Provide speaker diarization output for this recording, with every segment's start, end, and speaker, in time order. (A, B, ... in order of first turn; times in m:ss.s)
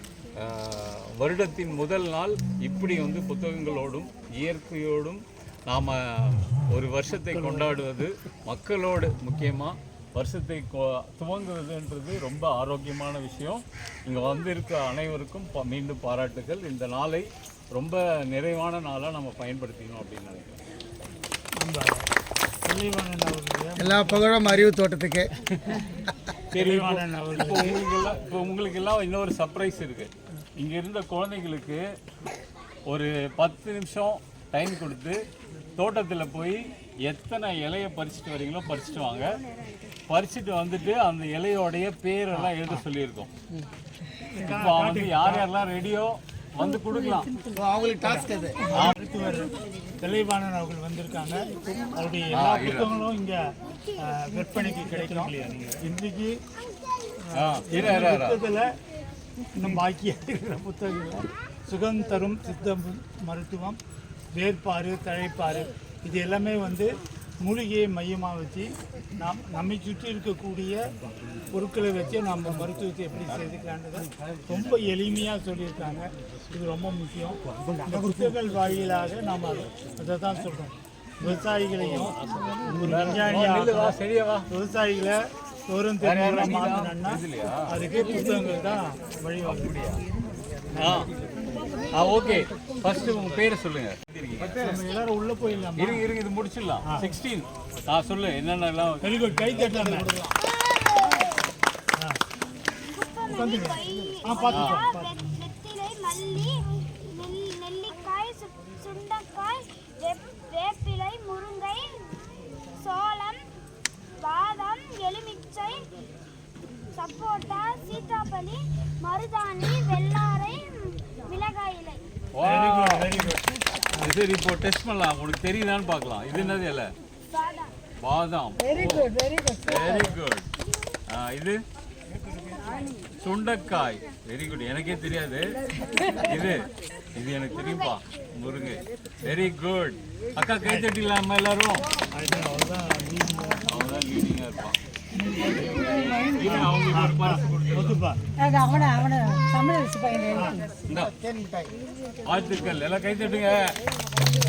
0:00.4-0:20.6 A
0:21.6-0:22.1 B
0:22.6-0:24.8 B
0:24.0-0:25.3 C
0:26.5-0:27.8 B
0:26.5-0:31.8 A
0:32.9-0:35.2 A
0:35.8-0:39.4 A
0:40.1-0:43.3 A
0:42.3-0:42.8 B
0:44.3-0:45.5 B
0:44.4-0:47.4 A
0:47.6-0:48.0 C
0:47.9-0:56.4 B
0:52.3-0:52.9 A
0:57.2-0:58.7 B
0:57.4-0:58.4 A
0:59.4-1:03.8 B
1:04.3-1:10.8 B
1:11.5-1:24.0 B
1:21.8-1:24.5 A
1:24.5-1:29.8 B
1:26.0-1:27.7 A
1:29.4-1:30.0 A
1:30.7-1:31.0 B
1:30.8-1:31.1 A
1:31.9-1:34.8 A
1:34.5-1:36.1 B
1:35.7-1:39.1 A
1:36.8-1:37.1 B
1:39.0-1:40.2 B
1:40.4-1:41.3 D
1:42.9-1:53.5 D
1:43.2-1:45.2 B
1:44.5-1:44.8 A
1:54.2-1:55.9 D
1:56.9-2:02.0 D
2:02.3-2:03.4 A
2:02.4-2:04.2 B
2:03.9-2:06.9 A
2:06.3-2:06.6 B
2:07.3-2:07.8 D
2:08.0-2:10.5 A
2:09.2-2:09.6 D
2:11.1-2:11.6 A
2:13.2-2:21.9 A
2:20.6-2:20.9 B
2:22.1-2:23.8 B
2:23.6-2:24.8 A
2:25.1-2:28.2 B
2:26.2-2:28.0 A
2:28.4-2:30.3 D
2:30.2-2:30.7 B
2:30.9-2:31.2 A
2:31.2-2:31.7 C
2:32.2-2:33.8 A